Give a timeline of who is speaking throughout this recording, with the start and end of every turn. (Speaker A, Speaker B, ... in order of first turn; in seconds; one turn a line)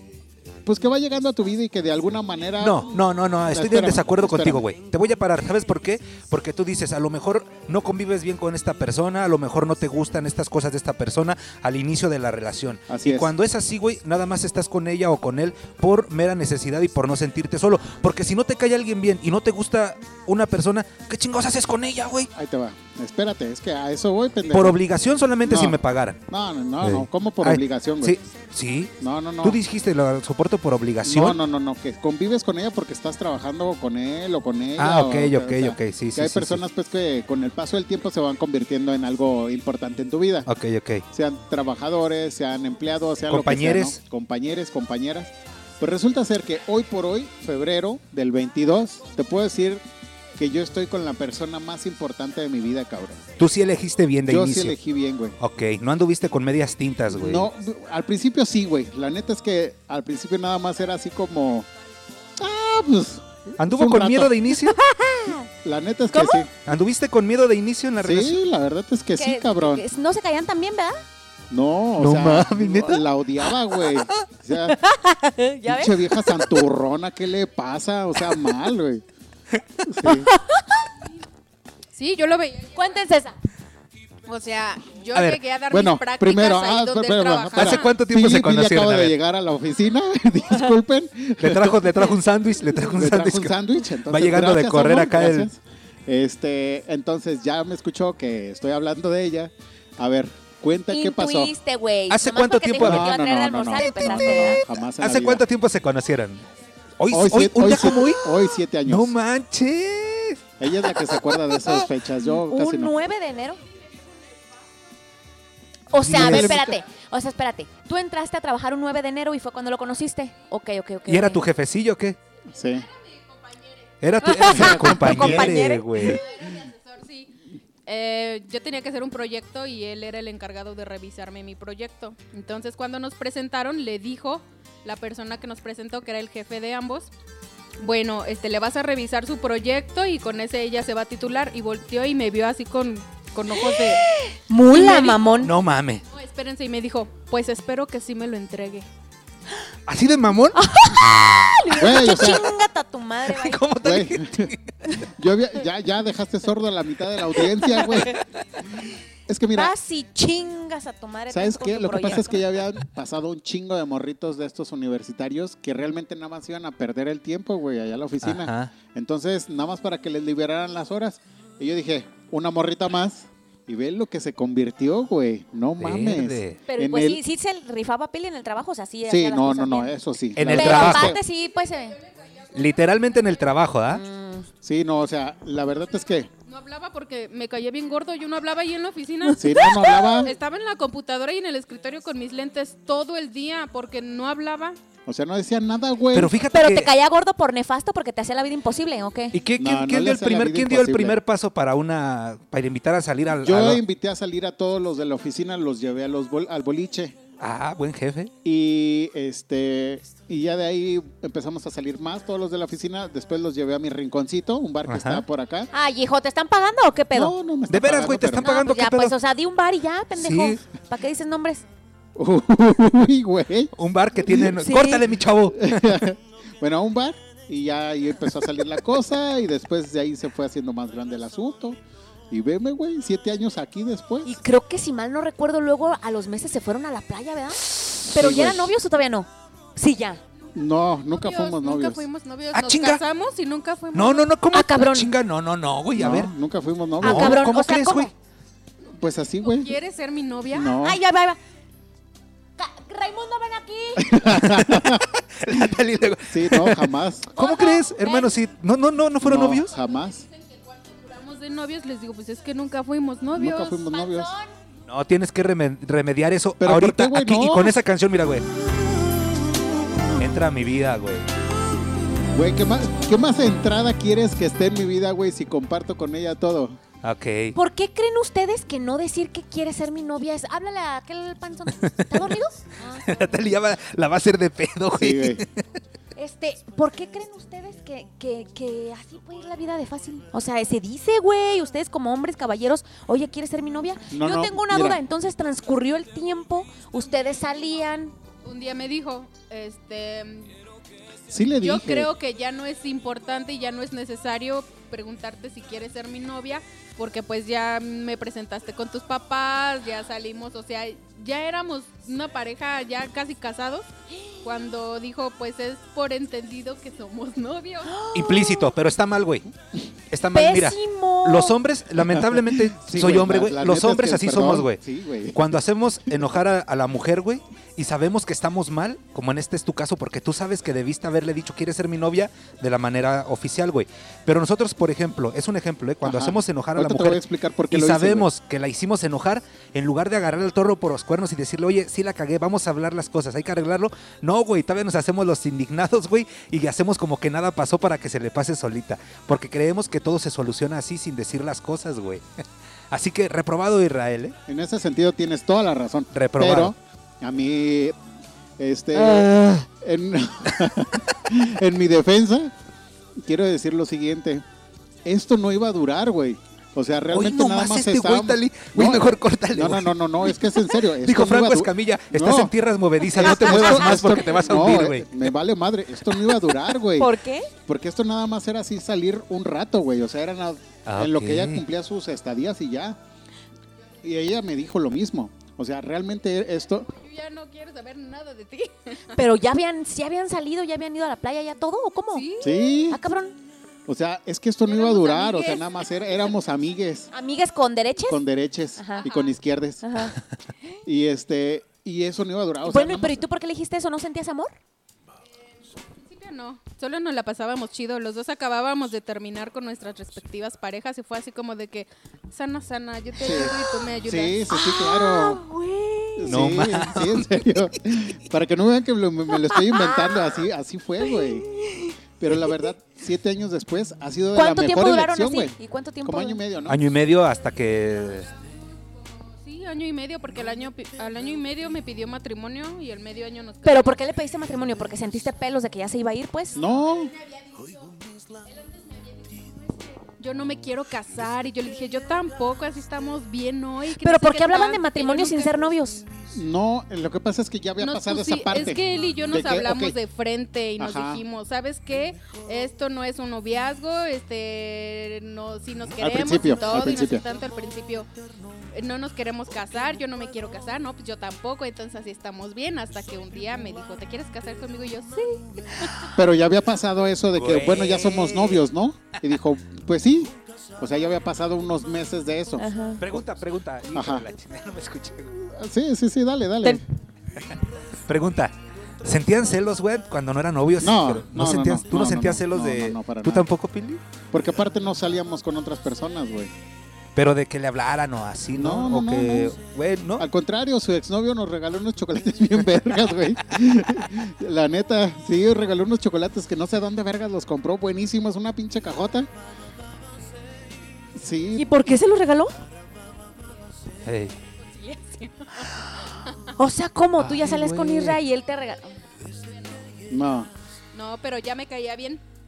Speaker A: 0.7-2.9
Speaker B: 2.6-22.3
Speaker A: 3.5-4.6
Speaker A: 12.9-13.3
Speaker A: 22.4-24.8
Speaker B: 24.5-26.2
Speaker A: 25.4-28.2
Speaker B: 26.8-31.4
Speaker A: 29.0-29.6
Speaker A: 31.0-40.5
Speaker B: 34.8-36.6
Speaker B: 40.5-41.0
Speaker A: 41.1-49.8
Speaker B: 43.3-44.0
Speaker A: 50.4-53.2
Speaker B: 53.4-54.8
Speaker A: 54.3-55.4
Speaker B: 55.4-57.5
Speaker A: 57.1-61.7
Speaker A: 62.4-64.3
Speaker B: 63.6-64.8
Speaker C: 64.6-65.5
Speaker A: 65.6-66.6
Speaker C: 66.1-66.4
Speaker B: 66.6-68.4
Speaker A: 68.0-69.8
Speaker C: 69.2-71.0
Speaker A: 71.5-74.8
Speaker B: 72.0-73.0
Speaker C: 74.9-76.2
Speaker A: 75.7-79.0
Speaker B: 79.5-80.1
Speaker A: 79.8-80.3
Speaker C: 80.6-80.8
Speaker D: 82.0-82.9
Speaker C: 82.7-83.4
Speaker D: 84.3-87.9
Speaker B: 85.1-85.4
Speaker A: 85.7-92.1
Speaker B: 87.5-89.1
Speaker B: 91.4-93.5
Speaker A: 92.9-101.5
Speaker B: 94.1-95.5
Speaker C: 100.9-104.6
Speaker B: 102.1-103.1
Speaker A: 102.8-105.4
Speaker B: 103.8-106.5
Speaker B: 107.0-108.4
Speaker A: 107.1-109.1
Speaker B: 108.9-110.4
Speaker A: 110.6-112.9
Speaker B: 111.1-111.4
Speaker C: 112.3-113.6
Speaker C: 115.9-121.4
Speaker A: 116.0-116.8
Speaker B: 116.0-116.7
Speaker B: 121.1-122.2
Speaker A: 122.5-122.9
Speaker B: 124.0-126.2
Speaker C: 124.2-126.2
Speaker A: 124.5-125.5
Speaker D: 126.1-127.3
Speaker D: 127.9-137.1
Speaker D: 137.8-144.0
Speaker C: 143.6-145.5
Speaker D: 144.8-145.2
Speaker B: 145.4-146.0
Speaker D: 146.1-148.9
Speaker B: 149.9-151.6
Speaker C: 150.5-153.7
Speaker A: 151.7-152.5
Speaker B: 153.3-155.0
Speaker A: 153.8-154.5
Speaker A: 155.1-158.2
Speaker A: 159.3-159.7
Speaker C: 159.5-162.4
Speaker A: 161.3-177.2
Speaker B: 168.2-168.7
Speaker B: 175.8-176.6
Speaker C: 176.7-182.0
Speaker A: 179.1-181.2
Speaker B: 180.4-181.2
Speaker D: 182.1-182.5
Speaker B: 182.5-184.0
Speaker C: 183.9-184.5
Speaker A: 184.6-186.3
Speaker D: 186.5-194.8
Speaker C: 189.3-190.3
Speaker A: 189.4-190.3
Speaker A: 195.1-196.3
Speaker B: 196.1-196.9
Speaker C: 196.5-199.4
Speaker B: 199.3-203.8
Speaker A: 199.6-201.2
Speaker A: 203.4-207.2
Speaker B: 207.4-208.3
Speaker A: 208.4-215.7
Speaker B: 214.9-215.2
Speaker C: 215.7-217.3
Speaker A: 217.1-218.5
Speaker B: 217.7-219.1
Speaker C: 218.4-221.6
Speaker B: 220.2-220.6
Speaker A: 222.2-224.6
Speaker B: 223.8-226.1
Speaker C: 224.6-225.1
Speaker A: 225.5-231.8
Speaker A: 232.3-234.4
Speaker C: 234.3-240.2
Speaker A: 238.1-238.7
Speaker A: 240.6-242.1
Speaker D: 241.2-244.3
Speaker B: 242.5-243.0
Speaker B: 243.9-246.3
Speaker C: 244.5-245.1
Speaker A: 245.9-247.4
Speaker B: 247.0-248.1
Speaker C: 247.0-248.1
Speaker A: 248.9-249.8
Speaker D: 249.4-250.8
Speaker A: 250.5-251.0
Speaker C: 250.8-251.4
Speaker C: 252.6-254.2
Speaker A: 254.0-255.7
Speaker B: 254.3-259.7
Speaker A: 256.3-257.3
Speaker C: 257.4-258.4
Speaker A: 259.2-260.3
Speaker D: 260.3-263.8
Speaker A: 263.4-264.3
Speaker C: 263.8-264.5
Speaker B: 264.9-268.4
Speaker A: 266.6-267.8
Speaker B: 270.2-271.3
Speaker A: 272.3-276.8
Speaker B: 277.0-277.6
Speaker C: 277.5-283.4
Speaker B: 283.0-285.6
Speaker A: 284.9-285.4
Speaker C: 286.2-298.1
Speaker A: 294.1-295.0
Speaker D: 298.4-300.6
Speaker A: 301.3-302.1
Speaker D: 301.6-313.9
Speaker D: 314.4-318.0
Speaker C: 317.9-318.7
Speaker B: 318.1-319.5
Speaker B: 320.1-324.8
Speaker C: 320.3-321.6
Speaker A: 322.1-325.4
Speaker B: 325.3-352.2
Speaker A: 336.0-338.3
Speaker B: 352.9-354.4
Speaker A: 354.5-358.0
Speaker B: 356.1-356.7
Speaker A: 358.6-362.5
Speaker B: 359.1-359.5
Speaker A: 363.2-364.4
Speaker A: 365.1-372.5
Speaker B: 367.1-375.3
Speaker A: 373.1-377.1
Speaker C: 373.2-373.9
Speaker C: 377.0-377.5
Speaker A: 377.7-383.0
Speaker B: 380.9-381.6
Speaker A: 384.0-386.9
Speaker D: 386.9-389.2
Speaker C: 389.1-392.3
Speaker D: 392.1-392.8
Speaker A: 392.4-393.0
Speaker C: 392.9-393.4
Speaker A: 393.9-397.1
Speaker D: 394.7-395.7
Speaker C: 397.1-398.2
Speaker A: 398.1-399.9
Speaker C: 398.8-399.1
Speaker D: 399.1-399.3
Speaker C: 399.8-400.2
Speaker A: 400.9-403.2
Speaker C: 402.6-404.6
Speaker D: 406.1-414.5
Speaker A: 413.2-415.4
Speaker C: 413.3-413.6
Speaker C: 414.5-416.4
Speaker A: 416.2-421.5
Speaker B: 416.3-417.5
Speaker C: 419.4-420.4
Speaker C: 421.0-421.9
Speaker A: 422.2-426.8
Speaker C: 424.4-426.4
Speaker B: 426.7-428.3
Speaker D: 429.4-433.9
Speaker C: 433.6-436.6
Speaker A: 436.6-437.1
Speaker D: 437.1-437.9
Speaker D: 438.5-445.6
Speaker C: 444.0-446.1
Speaker A: 446.3-450.0
Speaker D: 447.8-458.1
Speaker A: 450.8-451.2
Speaker A: 456.0-457.2
Speaker D: 458.7-465.9
Speaker A: 466.1-472.7
Speaker B: 467.4-468.6
Speaker C: 472.6-473.0
Speaker B: 473.0-475.4
Speaker A: 473.9-474.3
Speaker A: 475.4-476.8
Speaker B: 477.4-484.0
Speaker A: 480.8-483.5
Speaker A: 484.3-486.5
Speaker B: 487.1-490.3
Speaker A: 488.5-489.6
Speaker A: 490.2-499.3
Speaker A: 501.1-501.7
Speaker C: 501.6-502.5
Speaker B: 504.1-504.3
Speaker D: 504.8-505.5
Speaker C: 506.5-508.9
Speaker B: 507.2-508.2
Speaker A: 510.1-510.5
Speaker D: 510.9-512.2